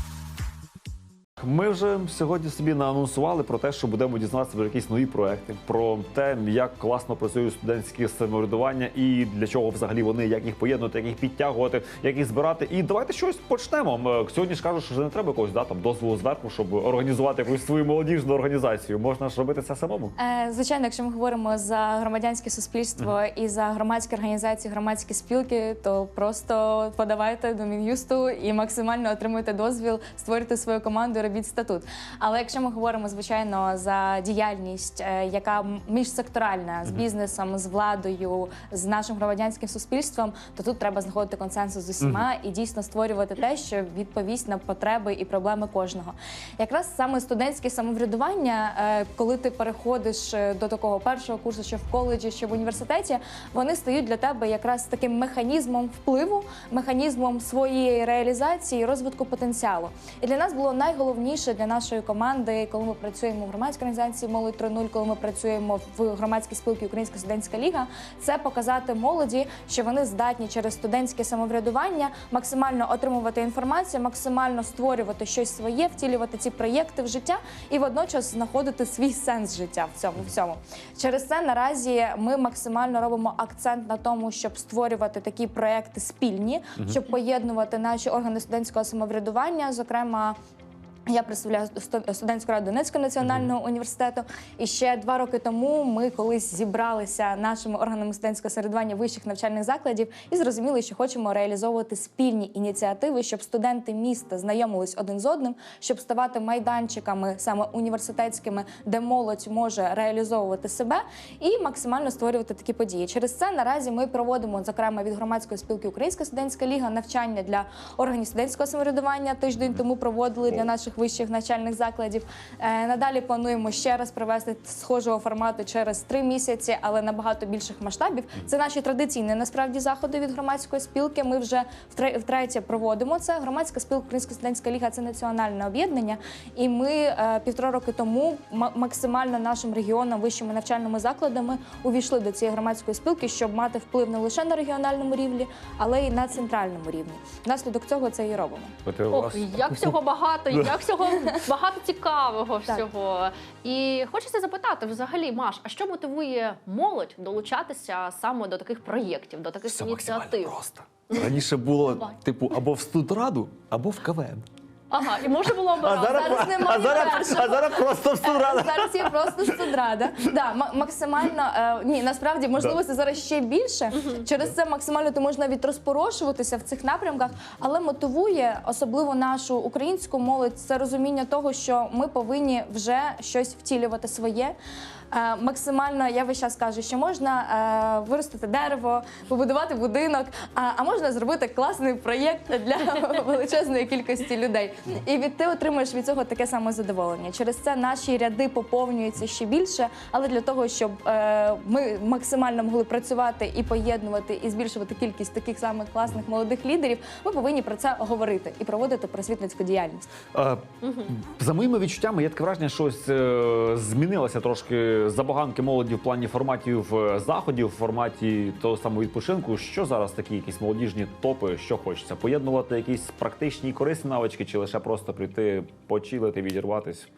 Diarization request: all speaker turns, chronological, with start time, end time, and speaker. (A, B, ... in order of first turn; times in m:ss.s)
0:01.4-0:20.1 A
0:20.2-1:30.4 B
1:31.1-2:28.8 B
1:33.2-1:33.5 A
2:28.8-2:30.0 A
2:29.1-2:40.5 C
2:30.5-2:30.8 A
2:39.6-2:44.4 A
2:44.9-2:47.3 C
2:45.8-2:49.6 A
2:46.0-3:04.5 B
3:05.1-3:30.1 B
3:30.3-3:47.1 A
3:30.8-3:31.1 C